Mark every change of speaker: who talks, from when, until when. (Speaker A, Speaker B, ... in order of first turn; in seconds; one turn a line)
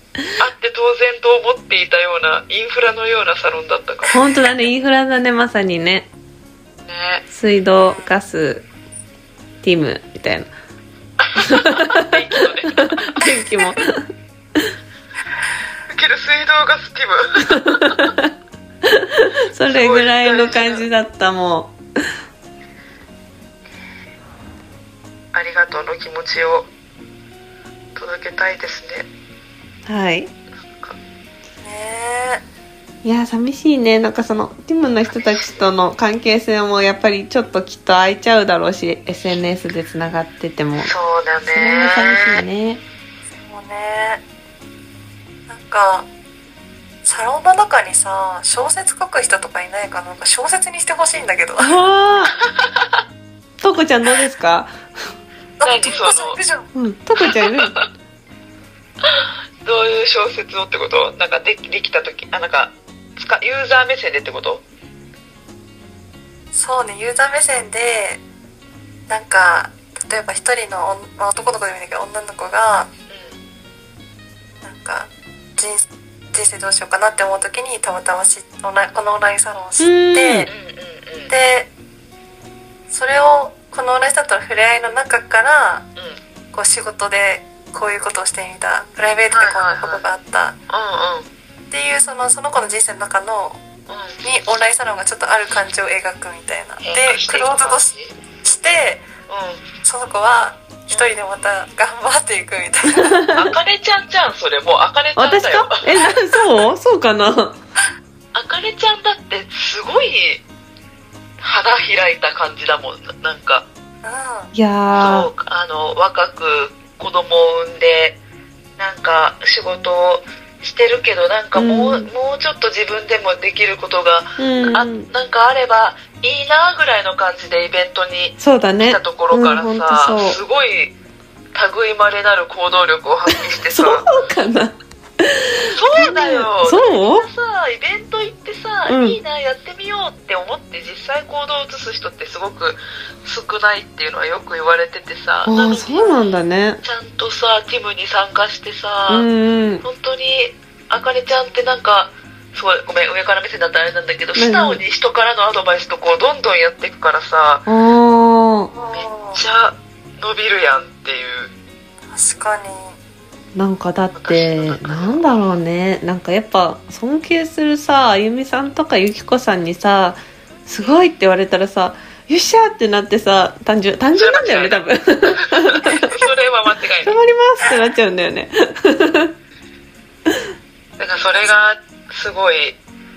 Speaker A: 0.4-4.2
Speaker B: 4.1-6.1
Speaker A: 6.9-7.2
Speaker B: 7.3-8.7
Speaker C: 7.8-8.2
Speaker B: 9.6-10.5
Speaker A: 11.2-13.3
Speaker B: 11.4-12.1
Speaker B: 12.8-14.0
Speaker A: 15.9-18.1
Speaker B: 17.4-18.3
Speaker B: 18.8-21.8
Speaker A: 19.7-20.9
Speaker A: 25.3-26.7
Speaker A: 27.9-29.1
Speaker B: 29.9-30.3
Speaker A: 30.6-31.0
Speaker C: 31.6-32.4
Speaker B: 33.0-40.9
Speaker A: 40.8-42.4
Speaker B: 41.5-42.8
Speaker C: 43.4-44.2
Speaker C: 45.5-46.1
Speaker C: 47.0-51.8
Speaker B: 51.6-52.4
Speaker A: 52.4-53.0
Speaker B: 53.6-54.8
Speaker C: 55.6-56.7
Speaker A: 55.6-56.4
Speaker B: 56.8-57.8
Speaker A: 57.2-57.9
Speaker A: 59.0-64.6
Speaker C: 66.5-68.2
Speaker C: 69.1-72.9
Speaker A: 73.1-73.4
Speaker C: 74.6-80.5
Speaker B: 79.8-80.5
Speaker A: 80.5-81.3
Speaker C: 81.3-81.7
Speaker C: 82.9-85.9
Speaker C: 86.5-90.6
Speaker A: 89.3-90.1
Speaker A: 90.7-91.3
Speaker C: 91.7-93.6
Speaker A: 93.9-94.2
Speaker C: 94.2-97.9
Speaker A: 96.8-98.2
Speaker C: 98.4-99.1
Speaker A: 99.3-99.6
Speaker C: 99.8-103.2
Speaker B: 102.9-103.5
Speaker A: 103.3-106.2
Speaker B: 105.2-107.6
Speaker A: 108.3-110.4
Speaker A: 111.4-113.7
Speaker C: 114.0-114.5
Speaker B: 114.5-115.3
Speaker A: 115.0-118.2
Speaker A: 118.8-130.9
Speaker B: 121.6-122.1
Speaker B: 124.4-125.1
Speaker B: 128.4-130.4
Speaker A: 131.5-134.1
Speaker B: 133.6-137.3
Speaker A: 135.7-146.2
Speaker B: 138.9-139.2
Speaker B: 145.4-146.8
Speaker A: 146.8-149.3
Speaker B: 149.1-149.8
Speaker A: 149.8-157.6
Speaker B: 154.4-154.8
Speaker B: 157.7-158.7
Speaker C: 158.7-159.4
Speaker A: 158.9-161.5
Speaker C: 162.1-162.9
Speaker B: 163.6-176.2
Speaker A: 164.2-165.4
Speaker A: 174.2-177.2
Speaker B: 177.0-179.3
Speaker A: 181.0-182.8